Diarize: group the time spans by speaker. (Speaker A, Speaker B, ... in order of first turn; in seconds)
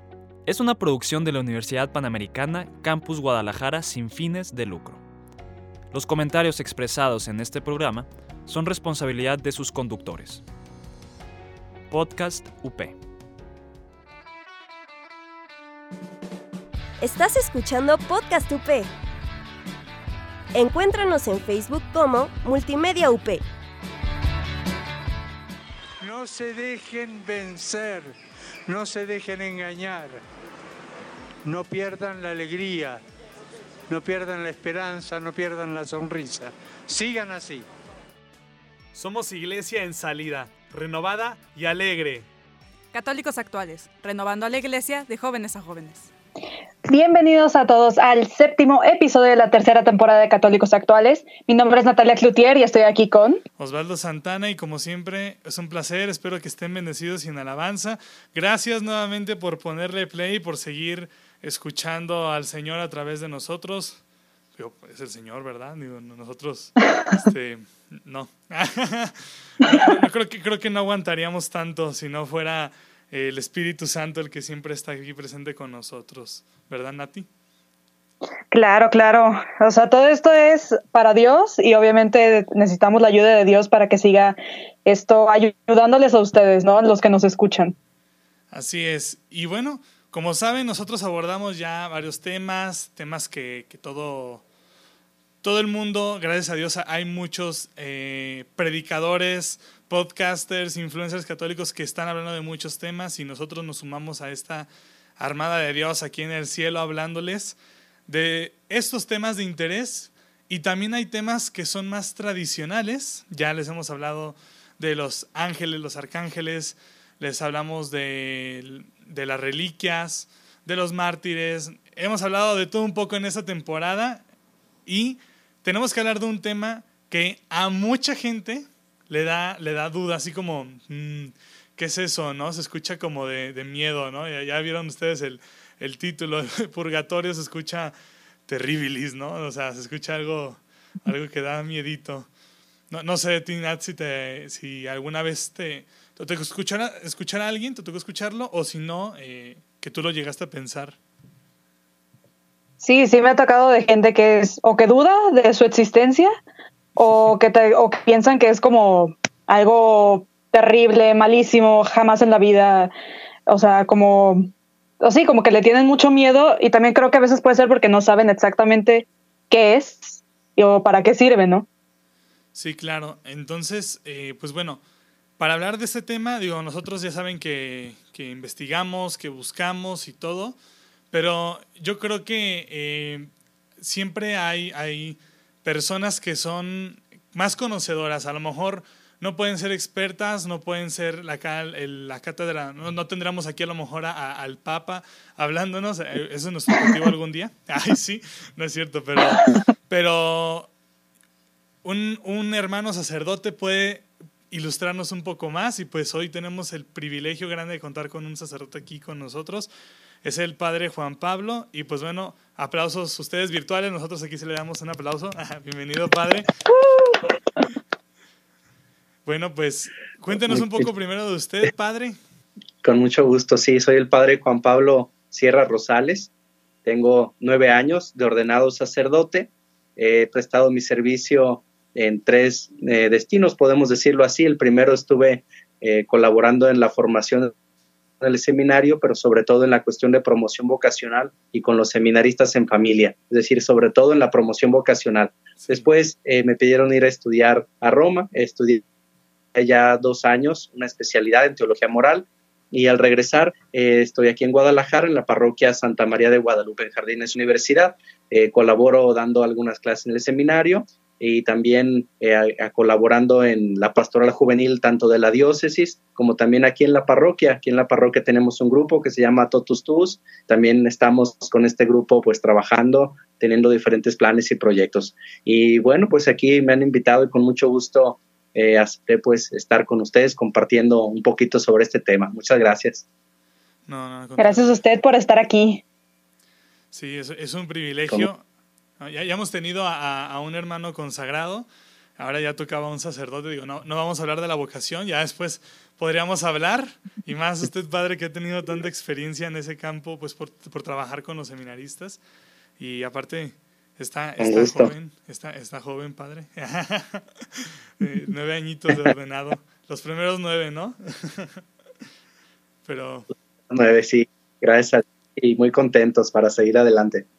Speaker A: 0.5-5.0, 5.9-10.4, 11.9-13.0
Speaker B: 17.0-18.9, 20.5-23.4
Speaker C: 26.0-28.2, 28.7-30.2, 31.4-33.0, 33.9-37.7
Speaker D: 39.0-42.3, 53.6-64.0, 64.6-77.3, 88.5-94.4, 95.4-107.6, 108.1-124.2, 124.9-137.9, 138.5-142.3, 142.9-151.0, 172.6-174.8, 175.4-180.6, 181.1-200.7, 201.8-209.7, 210.2-216.5, 219.2-222.2, 245.6-245.9, 283.9-284.8, 286.9-288.4, 289.0-291.7, 292.2-302.2, 302.8-311.6, 312.9-313.3
Speaker E: 42.9-46.1
Speaker F: 46.9-53.4, 78.5-87.8, 152.8-156.3, 157.0-162.9, 163.5-171.7, 284.4-285.8
Speaker G: 220.5-220.9, 222.8-226.3, 226.8-237.5, 238.2-248.8, 249.5-283.1, 304.4-304.9, 313.7-317.3